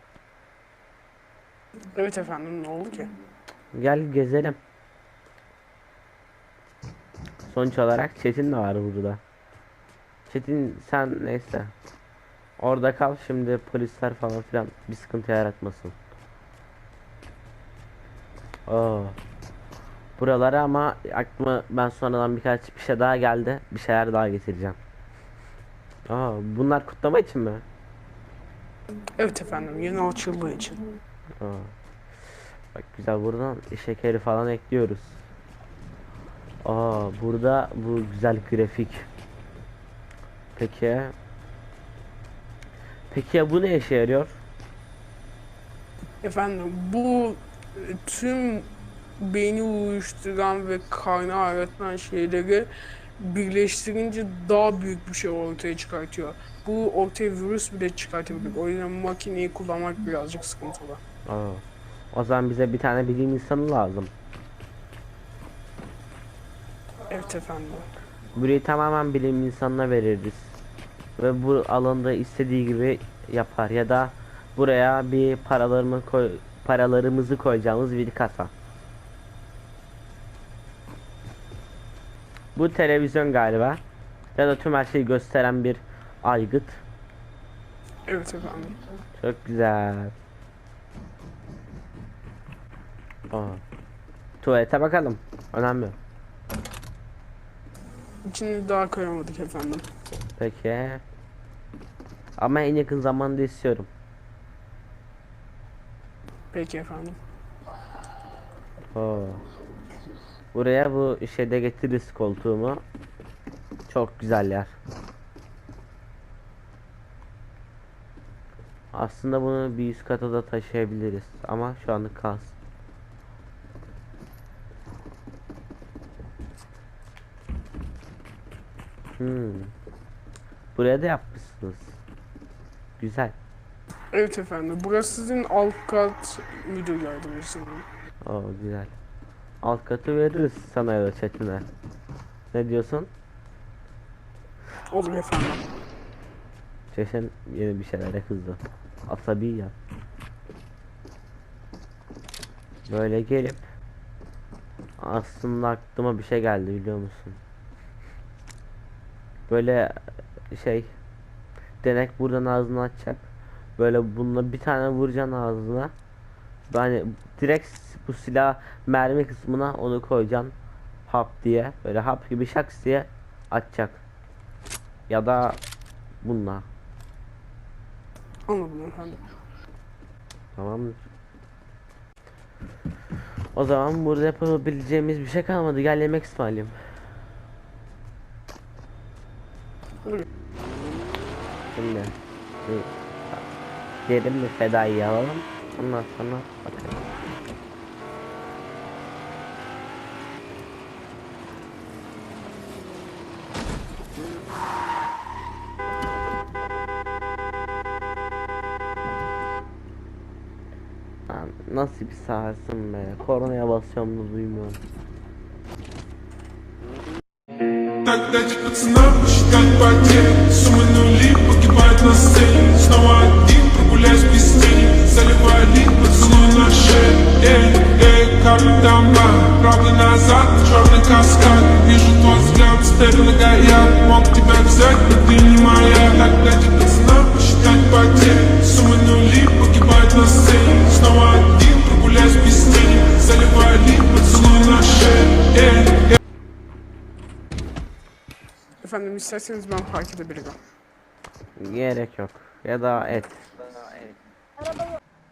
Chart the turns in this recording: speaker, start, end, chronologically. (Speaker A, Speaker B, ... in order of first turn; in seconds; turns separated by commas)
Speaker A: 1.9-3.1, Speaker B: 3.8-4.6, Speaker B: 7.5-9.2, Speaker B: 10.3-11.7, Speaker B: 12.6-16.0, Speaker B: 18.7-19.2, Speaker B: 20.2-24.8, Speaker B: 26.1-27.6, Speaker A: 29.2-30.8, Speaker B: 31.4-31.7, Speaker B: 32.7-35.2, Speaker B: 36.6-39.1, Speaker B: 40.6-41.2, Speaker B: 43.1-44.4, Speaker A: 46.2-61.0, Speaker B: 61.3-64.1, Speaker A: 67.1-67.9, Speaker B: 68.3-70.6, Speaker B: 71.2-78.5, Speaker B: 82.5-83.8, Speaker B: 84.4-86.8, Speaker A: 88.1-88.8, Speaker B: 89.2-90.2, Speaker B: 93.3-93.6, Speaker B: 94.4-96.0, Speaker A: 98.3-99.9, Speaker B: 100.4-101.0, Speaker B: 102.4-103.9, Speaker A: 106.5-107.2, Speaker B: 108.9-109.4, Speaker B: 110.5-112.8, Speaker B: 113.9-114.8, Speaker B: 118.9-122.5, Speaker B: 129.2-129.7, Speaker B: 130.8-132.0, Speaker B: 133.0-133.4, Speaker A: 134.1-137.9, Speaker B: 138.2-138.9, Speaker B: 139.6-141.7, Speaker B: 142.5-143.1, Speaker A: 144.9-145.6, Speaker B: 146.9-149.7, Speaker B: 152.9-153.7, Speaker B: 155.0-157.4, Speaker B: 159.5-160.9, Speaker B: 161.8-163.2, Speaker B: 163.8-165.9, Speaker B: 166.7-170.5, Speaker B: 171.1-174.0, Speaker B: 175.1-175.6, Speaker B: 176.2-176.7, Speaker A: 178.5-179.2, Speaker B: 180.6-181.0, Speaker B: 183.6-186.8, Speaker B: 191.8-193.5, Speaker B: 194.1-197.0, Speaker B: 211.3-214.8, Speaker C: 218.0-246.2, Speaker A: 248.8-250.6, Speaker B: 251.6-254.0